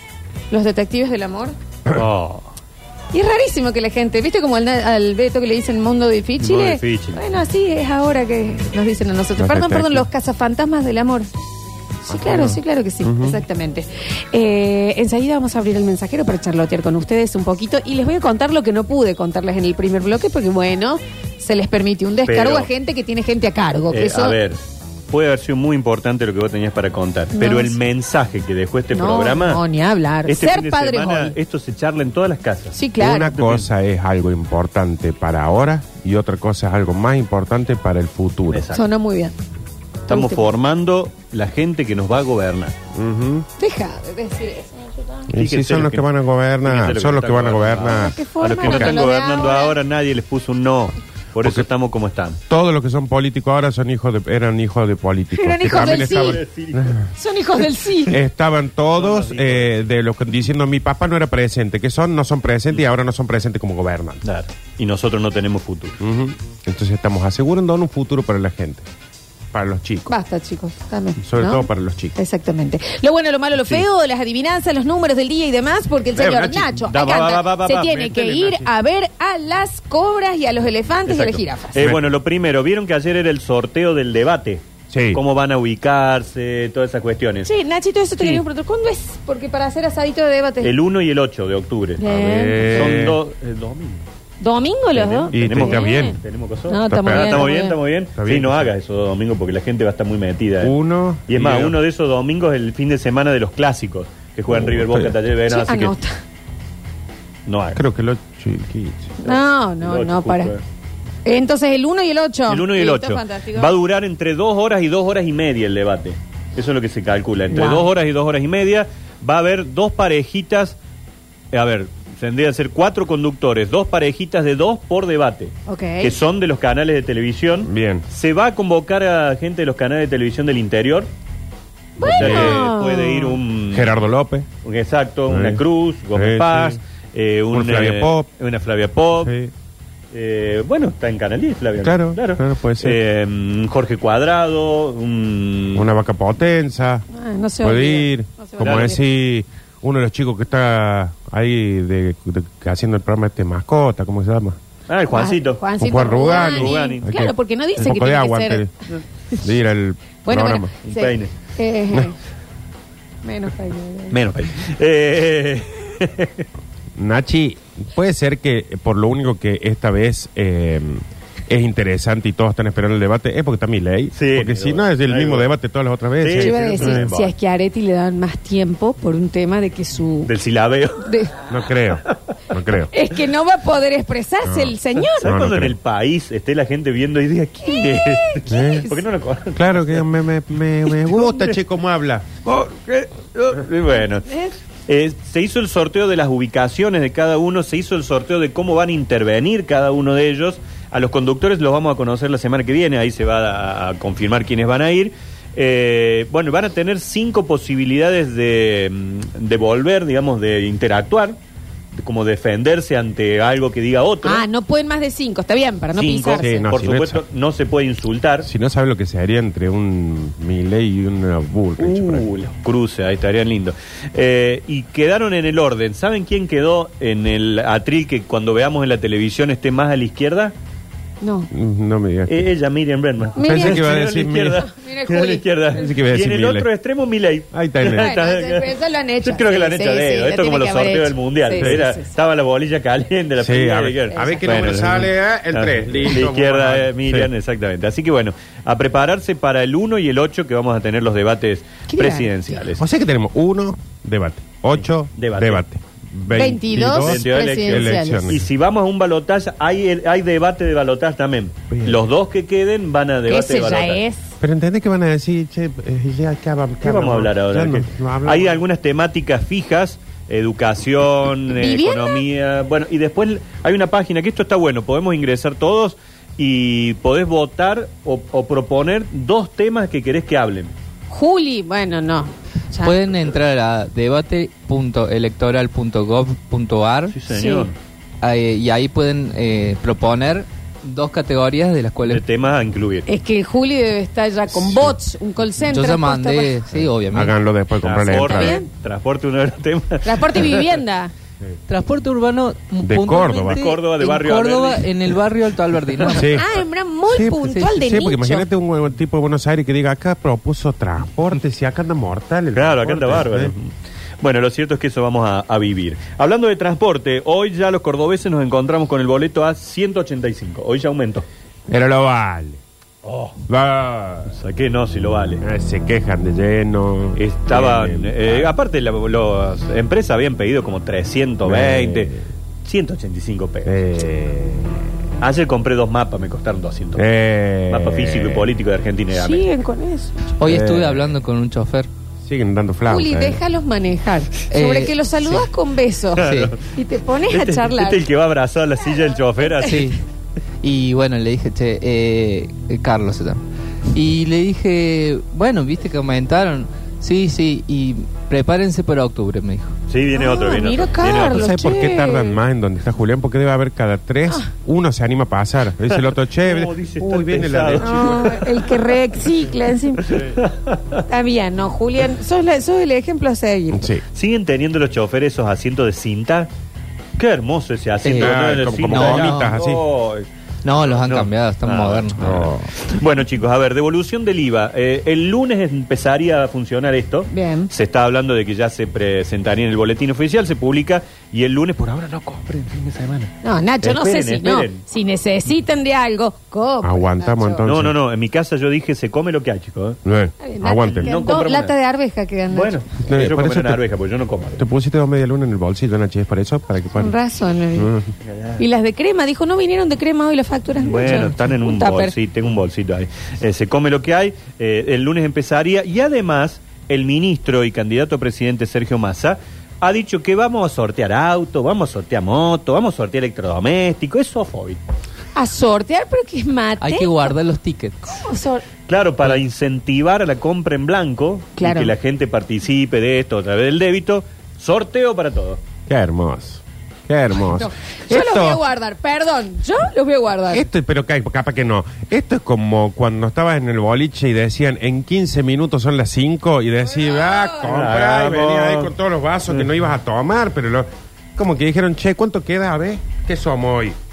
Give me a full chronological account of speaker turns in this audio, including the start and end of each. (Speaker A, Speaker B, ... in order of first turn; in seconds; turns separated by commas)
Speaker A: 0.5-1.6, Speaker B: 1.9-2.5, Speaker A: 3.1-11.3, Speaker B: 6.4-7.2, Speaker C: 9.4-10.1, Speaker A: 12.0-24.4, Speaker C: 12.2-13.4, Speaker B: 22.2-22.7, Speaker B: 23.9-29.6, Speaker A: 27.3-27.8, Speaker A: 28.9-31.4, Speaker B: 30.3-32.8, Speaker A: 32.8-33.3, Speaker C: 33.0-38.7, Speaker B: 33.3-33.7, Speaker B: 38.5-38.9, Speaker A: 38.7-39.3, Speaker A: 40.1-40.5, Speaker B: 40.1-42.7, Speaker C: 42.9-43.5, Speaker A: 43.6-45.2, Speaker C: 45.3-49.0, Speaker B: 45.3-52.4, Speaker A: 47.9-49.8, Speaker C: 51.4-51.7, Speaker C: 52.5-57.0, Speaker A: 55.3-56.4, Speaker B: 55.7-57.1, Speaker A: 57.1-58.2, Speaker C: 58.1-64.2, Speaker B: 58.9-59.9, Speaker B: 64.2-66.0, Speaker C: 66.0-68.8, Speaker C: 69.5-70.1, Speaker A: 70.1-81.9, Speaker C: 71.2-72.2, Speaker B: 73.6-73.8, Speaker C: 76.2-76.8, Speaker B: 76.9-78.4, Speaker C: 77.8-78.7, Speaker B: 81.1-87.5, Speaker C: 81.8-82.1, Speaker C: 84.9-85.2, Speaker A: 87.5-90.7, Speaker B: 90.6-92.0, Speaker A: 92.0-93.0, Speaker C: 92.0-93.2, Speaker B: 92.7-94.0, Speaker A: 94.4-96.2, Speaker B: 94.9-100.8, Speaker C: 95.3-96.2, Speaker A: 96.7-97.8, Speaker C: 96.9-97.5, Speaker C: 98.2-98.7, Speaker C: 100.6-101.8, Speaker B: 101.3-106.0, Speaker C: 104.5-105.2, Speaker A: 105.5-106.1, Speaker B: 107.5-107.8, Speaker C: 107.7-109.1, Speaker B: 109.2-110.6, Speaker A: 109.2-110.5, Speaker A: 111.2-113.8, Speaker B: 112.5-120.8, Speaker A: 117.5-117.9, Speaker B: 121.5-131.1, Speaker A: 125.7-126.2, Speaker C: 127.6-128.1, Speaker A: 132.0-133.4, Speaker B: 132.0-134.0, Speaker C: 132.1-132.6, Speaker C: 133.7-134.5, Speaker B: 134.6-139.3, Speaker C: 135.3-136.8, Speaker C: 137.5-138.3, Speaker C: 139.2-139.5, Speaker B: 140.1-145.9, Speaker C: 141.8-143.0, Speaker C: 145.8-147.1, Speaker A: 147.1-149.0, Speaker C: 147.6-154.6, Speaker B: 148.6-149.0, Speaker B: 154.9-157.1, Speaker A: 155.1-158.7, Speaker C: 155.8-158.7, Speaker C: 159.4-160.7, Speaker A: 160.2-162.2, Speaker B: 160.8-161.3, Speaker A: 163.2-164.2, Speaker B: 164.1-166.4, Speaker C: 167.0-177.1, Speaker B: 174.1-175.5, Speaker B: 176.2-177.3, Speaker A: 176.4-180.3, Speaker B: 180.2-181.1, Speaker A: 181.0-181.3, Speaker C: 181.5-182.9, Speaker A: 182.9-185.3, Speaker C: 184.4-185.8, Speaker B: 185.2-190.1, Speaker A: 187.6-189.0, Speaker C: 188.5-188.9, Speaker C: 189.6-192.3, Speaker B: 190.8-191.6, Speaker B: 192.4-194.3, Speaker A: 194.3-194.5, Speaker B: 194.9-211.4, Speaker B: 212.0-214.5, Speaker A: 214.2-216.5, Speaker B: 216.0-218.5, Speaker C: 216.4-217.2, Speaker C: 218.4-222.3, Speaker B: 221.8-230.5, Speaker A: 231.2-231.5, Speaker C: 231.5-232.5, Speaker B: 232.3-252.8, Speaker A: 233.4-233.8, Speaker C: 233.4-234.7, Speaker A: 234.6-235.7, Speaker C: 235.7-236.7, Speaker C: 237.5-238.1, Speaker A: 237.9-242.1, Speaker C: 241.6-241.8, Speaker C: 243.4-247.3, Speaker A: 244.1-244.7, Speaker A: 251.9-252.4, Speaker C: 252.8-258.5, Speaker B: 254.7-255.6, Speaker A: 256.3-258.4, Speaker B: 256.8-264.0, Speaker C: 261.7-262.0, Speaker A: 263.3-264.3, Speaker C: 264.4-268.6, Speaker B: 266.8-280.7, Speaker A: 271.5-272.2, Speaker A: 281.1-283.0, Speaker D: 282.8-287.2, Speaker B: 287.1-287.8, Speaker A: 287.3-287.7, Speaker D: 288.2-292.2, Speaker B: 292.1-293.1, Speaker A: 293.1-296.7, Speaker C: 294.5-294.9, Speaker D: 295.6-297.4, Speaker C: 297.1-298.6, Speaker B: 297.8-300.8, Speaker A: 298.1-298.7, Speaker A: 300.1-301.1, Speaker D: 301.7-306.4, Speaker C: 302.8-303.6, Speaker B: 303.4-305.0, Speaker C: 306.1-306.5, Speaker A: 306.1-308.5, Speaker C: 307.1-313.5, Speaker D: 307.5-307.8, Speaker B: 312.5-321.3, Speaker C: 321.7-322.6, Speaker B: 323.0-323.4, Speaker C: 323.5-324.3, Speaker B: 324.3-325.4, Speaker C: 325.4-328.5, Speaker B: 327.2-332.1, Speaker C: 331.4-332.2, Speaker B: 332.6-333.8, Speaker C: 333.7-334.8, Speaker B: 335.2-337.1, Speaker C: 337.0-338.5, Speaker B: 337.7-339.5, Speaker A: 339.1-340.4, Speaker D: 340.4-341.9, Speaker C: 340.4-341.1, Speaker C: 342.2-343.4, Speaker A: 342.9-348.0, Speaker D: 344.5-345.5, Speaker B: 346.2-346.6, Speaker D: 346.2-346.5, Speaker B: 347.2-349.9, Speaker A: 349.4-349.9, Speaker D: 349.7-350.0, Speaker D: 350.6-353.4, Speaker D: 353.9-359.8, Speaker B: 359.9-361.5, Speaker A: 360.1-362.4, Speaker C: 361.1-368.3, Speaker B: 365.9-368.8, Speaker A: 367.8-370.1, Speaker B: 370.1-371.0, Speaker A: 371.1-373.9, Speaker C: 373.7-374.0, Speaker B: 374.1-376.5, Speaker B: 377.2-394.8, Speaker D: 378.0-379.6, Speaker C: 378.2-379.8, Speaker D: 380.6-382.5, Speaker C: 382.2-382.7, Speaker A: 387.3-387.7, Speaker A: 393.4-397.6, Speaker C: 396.8-398.0, Speaker B: 397.6-400.0, Speaker C: 400.0-401.2, Speaker A: 400.4-402.9, Speaker B: 400.9-401.8, Speaker B: 402.5-404.6, Speaker C: 403.1-403.8, Speaker C: 404.6-407.1, Speaker A: 406.9-407.9, Speaker C: 407.8-408.1, Speaker B: 408.2-408.6, Speaker A: 408.6-412.1, Speaker B: 410.8-424.8, Speaker A: 425.4-427.4, Speaker D: 426.8-428.1, Speaker A: 428.1-428.6, Speaker B: 428.9-435.6, Speaker A: 431.6-431.9, Speaker C: 435.9-438.6, Speaker A: 437.3-440.7, Speaker C: 440.5-454.0, Speaker A: 446.9-447.7, Speaker B: 447.6-448.9